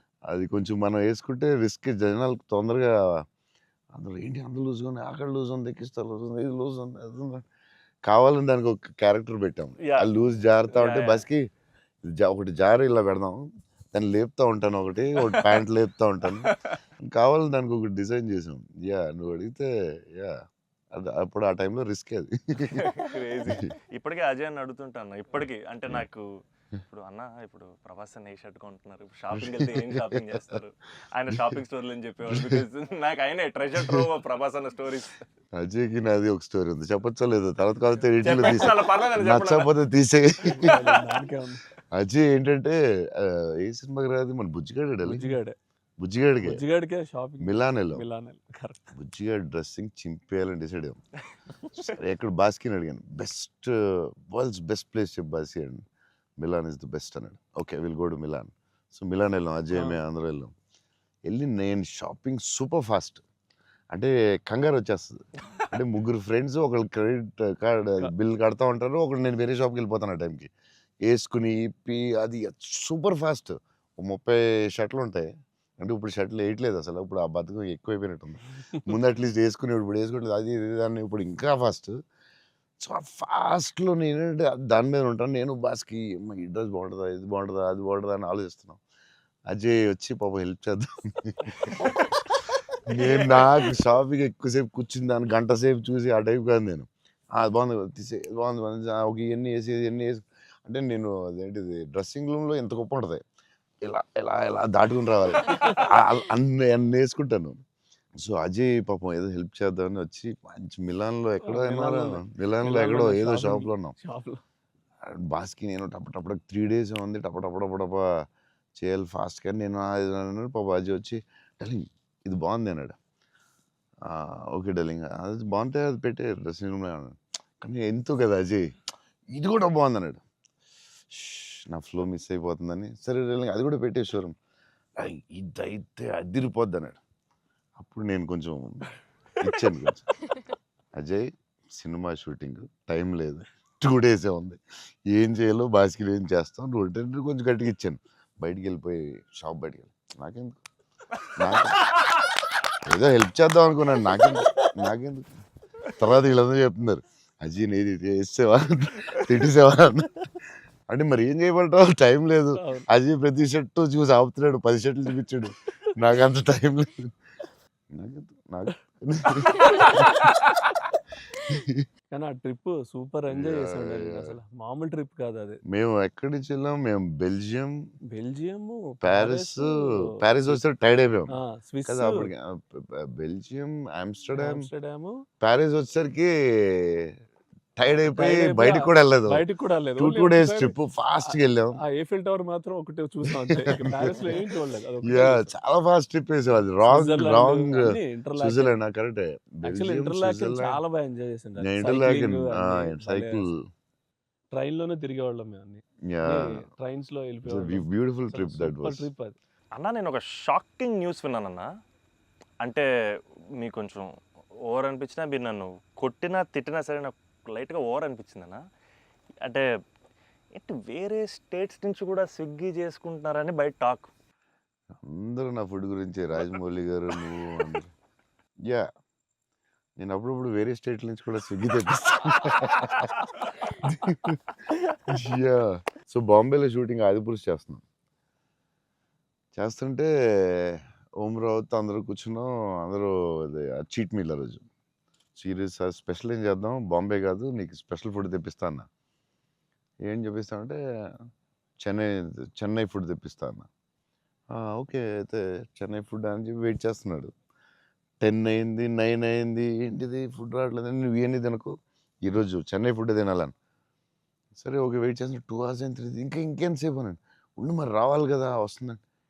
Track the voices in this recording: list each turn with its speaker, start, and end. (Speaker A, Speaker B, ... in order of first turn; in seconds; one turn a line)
Speaker A: 0.3-3.2
Speaker A: 4.0-7.4
Speaker A: 8.1-11.4
Speaker B: 9.8-10.1
Speaker B: 10.7-11.3
Speaker A: 12.0-16.5
Speaker B: 15.3-15.6
Speaker B: 16.4-16.8
Speaker A: 17.0-20.3
Speaker A: 20.9-22.9
Speaker B: 22.6-26.3
Speaker B: 26.9-35.2
Speaker A: 29.3-30.6
Speaker A: 31.3-31.6
Speaker A: 32.2-32.6
Speaker A: 35.5-40.8
Speaker B: 38.2-39.7
Speaker C: 40.4-41.7
Speaker A: 41.9-45.3
Speaker C: 45.0-45.6
Speaker A: 46.0-46.6
Speaker C: 46.4-48.9
Speaker A: 47.4-48.0
Speaker A: 49.0-51.0
Speaker A: 51.8-55.8
Speaker A: 56.4-60.5
Speaker C: 59.7-60.0
Speaker A: 61.3-63.2
Speaker A: 63.9-70.5
Speaker A: 71.1-82.0
Speaker A: 82.8-88.8
Speaker A: 89.5-92.0
Speaker A: 92.9-103.2
Speaker B: 93.0-93.5
Speaker A: 103.8-107.6
Speaker C: 105.5-105.9
Speaker A: 108.2-113.9
Speaker C: 111.4-114.4
Speaker A: 115.0-118.0
Speaker A: 118.8-123.0
Speaker A: 124.1-128.7
Speaker A: 129.3-130.2
Speaker A: 131.1-134.3
Speaker A: 135.0-137.0
Speaker A: 137.8-140.1
Speaker A: 140.9-150.6
Speaker A: 151.4-151.9
Speaker A: 152.8-155.4
Speaker A: 156.0-160.3
Speaker A: 160.9-167.1
Speaker C: 162.6-162.9
Speaker A: 167.9-170.2
Speaker C: 169.6-170.6
Speaker A: 171.4-171.8
Speaker C: 172.1-175.6
Speaker A: 173.3-174.2
Speaker A: 175.7-177.8
Speaker C: 178.1-180.6
Speaker A: 179.0-181.3
Speaker C: 181.3-182.3
Speaker A: 181.9-184.6
Speaker C: 184.4-185.2
Speaker A: 185.4-187.1
Speaker A: 187.8-189.4
Speaker C: 188.1-195.5
Speaker A: 190.0-191.8
Speaker A: 193.8-194.4
Speaker A: 195.0-200.8
Speaker C: 196.8-198.8
Speaker C: 199.7-203.5
Speaker A: 201.6-203.6
Speaker C: 204.5-209.4
Speaker A: 206.1-206.6
Speaker A: 207.5-209.1
Speaker B: 209.8-211.7
Speaker B: 213.6-214.1
Speaker B: 214.7-218.6
Speaker B: 220.6-224.1
Speaker A: 225.0-227.9
Speaker A: 230.0-237.8
Speaker A: 239.6-244.6
Speaker A: 245.4-248.9
Speaker A: 250.1-250.8
Speaker A: 251.8-253.7
Speaker A: 254.5-257.3
Speaker A: 258.2-263.5
Speaker A: 264.6-269.0